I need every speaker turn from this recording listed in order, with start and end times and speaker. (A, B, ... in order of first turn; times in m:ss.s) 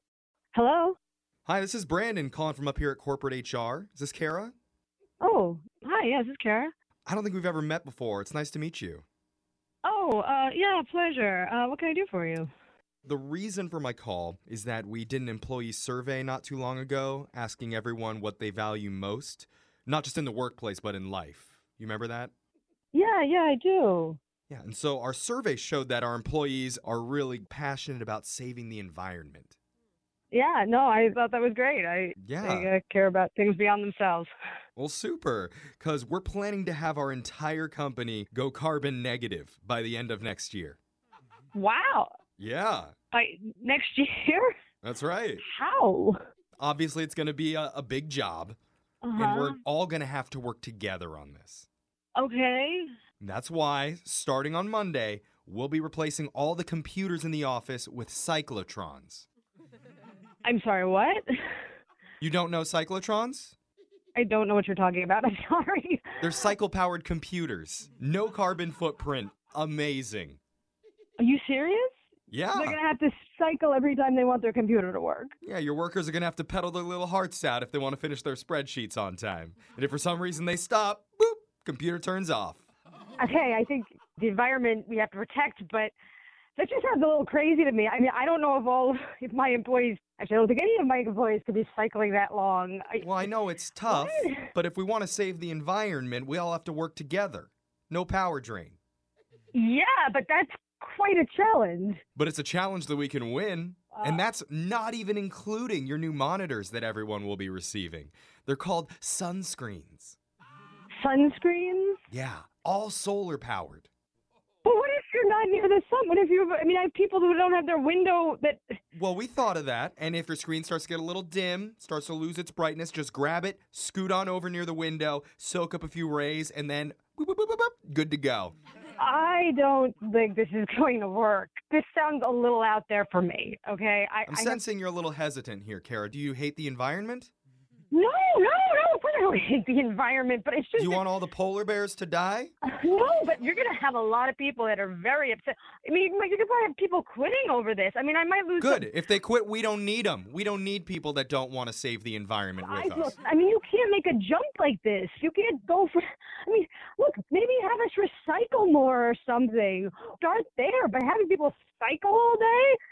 0:00.5-0:01.0 A
0:01.4-0:04.5 B
0:05.2-0:06.7 A
0:07.1-0:09.0 B
0:09.8-0:12.5 A
0:13.0-0:22.3 B
0:22.9-0:24.2 A
0:24.5-0:29.6 B
0:30.3-0:34.3 A
0:32.2-0:32.7 B
0:34.8-0:40.8 B
0:41.5-0:42.1 A
0:42.4-0:42.9 B
0:43.1-0:44.5 A
0:44.8-0:45.4 B
0:45.4-0:46.2 A
0:46.6-0:48.6 B
0:49.0-0:49.6 A
0:49.2-0:51.7 B
0:52.2-0:52.8 A
0:53.2-0:59.3 B
1:00.4-1:01.2 A
1:02.2-1:03.6 B
1:04.1-1:06.2 A
1:06.2-1:10.4 B
1:11.2-1:11.9 A
1:12.3-1:12.8 B
1:12.5-1:15.3 A
1:15.4-1:22.6 B
1:23.2-1:25.9 A
1:26.6-1:33.2 A
1:33.0-1:38.8 B
1:33.9-1:34.5 A
1:39.5-1:42.0 A
1:42.2-1:50.2 B
1:43.9-1:44.2 A
1:51.0-1:52.0 A
1:52.1-1:53.9 B
1:54.6-1:58.6 A
1:58.9-2:08.5 B
2:09.0-2:14.6 A
2:14.3-2:17.3 B
2:17.9-2:21.0 A
2:20.8-2:22.5 B
2:22.6-2:28.9 A
2:28.6-2:33.2 B
2:32.6-2:42.8 A